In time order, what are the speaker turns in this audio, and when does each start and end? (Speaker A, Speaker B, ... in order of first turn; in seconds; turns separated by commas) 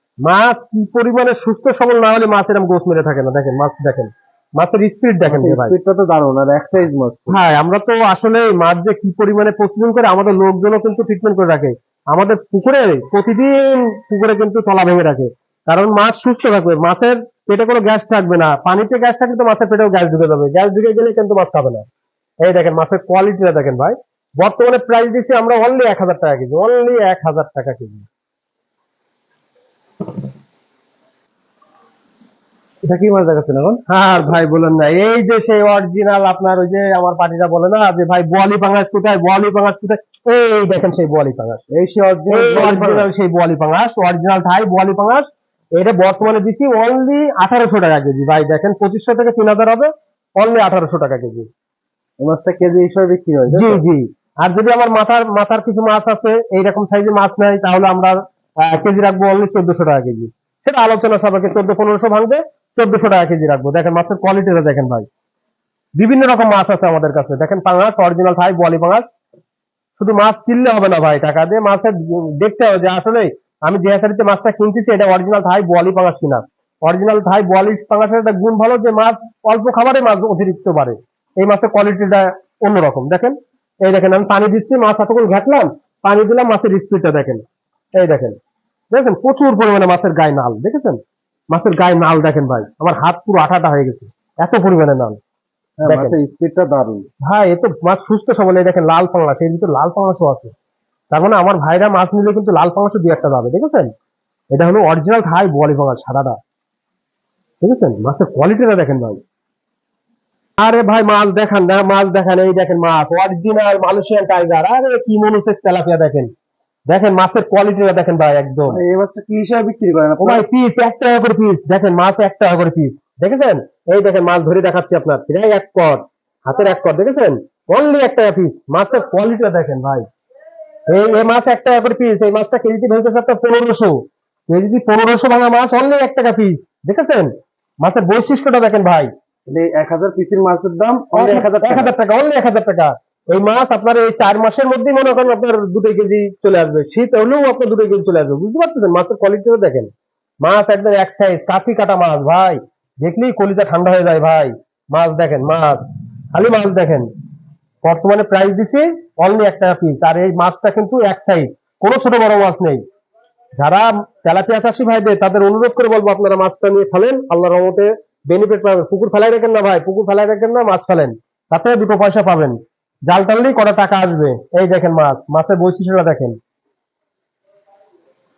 Speaker A: 0.2-5.7, Speaker B: 5.2-7.4, Speaker A: 7.3-21.9, Speaker A: 22.4-28.1, Speaker B: 32.8-33.8, Speaker A: 33.9-41.6, Speaker B: 41.7-43.1, Speaker A: 42.3-51.5, Speaker B: 52.2-53.8, Speaker A: 53.5-65.0, Speaker A: 66.0-69.0, Speaker A: 70.0-87.4, Speaker A: 88.0-88.3, Speaker A: 88.9-91.0, Speaker A: 91.5-95.2, Speaker B: 95.8-97.1, Speaker A: 95.8-96.2, Speaker A: 97.2-100.5, Speaker A: 101.1-103.9, Speaker A: 104.5-106.4, Speaker A: 107.6-109.2, Speaker A: 110.6-116.3, Speaker A: 116.9-118.8, Speaker B: 118.7-120.4, Speaker A: 120.2-130.0, Speaker A: 130.9-133.9, Speaker A: 134.5-137.3, Speaker A: 137.8-139.1, Speaker B: 139.5-141.9, Speaker A: 141.1-149.9, Speaker A: 150.4-157.1, Speaker A: 157.8-162.8, Speaker A: 163.6-172.6, Speaker A: 173.1-176.4